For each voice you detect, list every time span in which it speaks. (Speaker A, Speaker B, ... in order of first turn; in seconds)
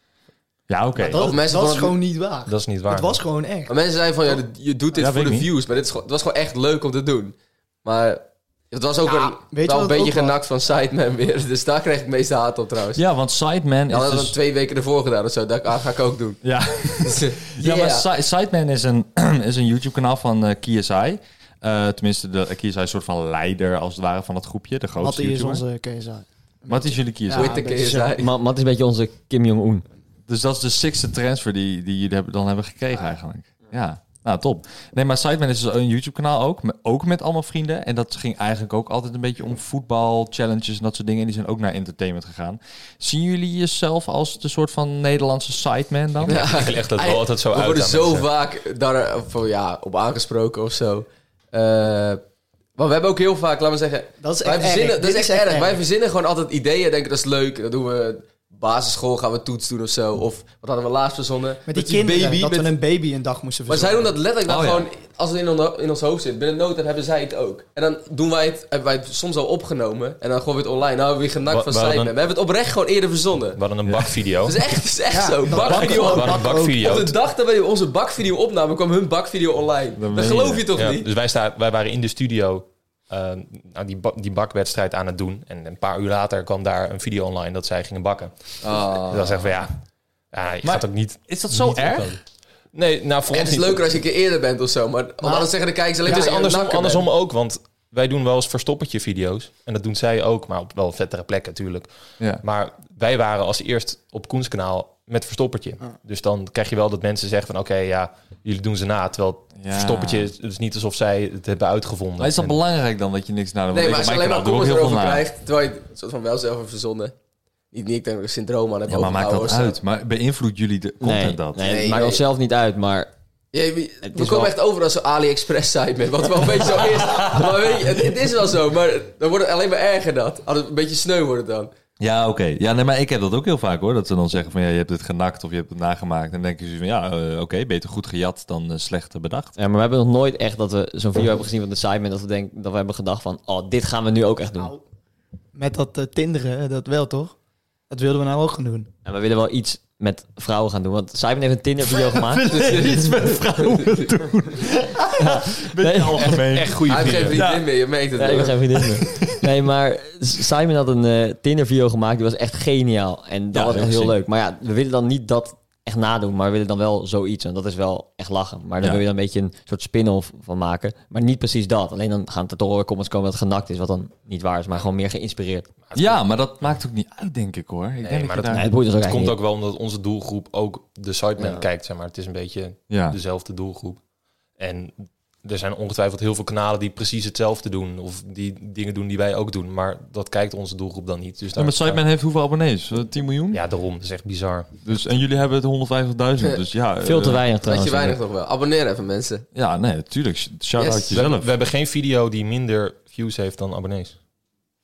Speaker A: 0.7-1.3, 12.9-14.3, 16.4-25.6, 26.7-27.6, 30.3-46.5, 64.5-64.9, 73.8-74.2, 80.0-80.6, 88.6-89.5, 90.6-92.2, 109.6-110.3, 112.2-115.3, 118.9-121.6, 126.9-127.4, 132.0-139.5, 152.2-157.7, 159.0-159.5, 163.5-164.2, 175.9-178.7, 182.9-183.2, 191.5-193.6, 194.8-197.4, 199.5-201.5
Speaker B: 1.0-3.7, 9.0-10.4, 25.0-28.1, 54.2-55.8, 61.6-64.1, 75.1-77.0, 95.2-95.5, 145.5-147.3, 147.9-148.9
Speaker C: 1.1-2.0, 3.7-13.0, 13.9-16.4, 16.9-18.1, 27.3-28.3, 46.2-52.2, 52.8-62.7, 63.7-73.6, 74.4-81.1, 93.3-97.1, 113.7-117.1, 117.7-119.8, 121.6-122.2, 123.5-131.7, 152.5-154.1, 156.9-158.8, 197.6-199.4, 200.8-201.3
Speaker D: 2.5-3.1, 5.0-5.5, 46.2-48.3, 71.5-72.1, 73.5-74.6, 75.5-77.1, 80.8-93.9, 96.0-112.6, 156.5-157.4, 175.8-176.2, 178.0-184.0, 184.6-192.0, 193.5-194.7, 201.1-204.2
Speaker E: 28.2-29.8, 121.0-123.1, 124.0-124.5, 139.6-144.7, 149.0-152.5, 155.2-156.4, 158.2-175.7, 178.5-179.4, 181.4-181.6, 197.0-198.2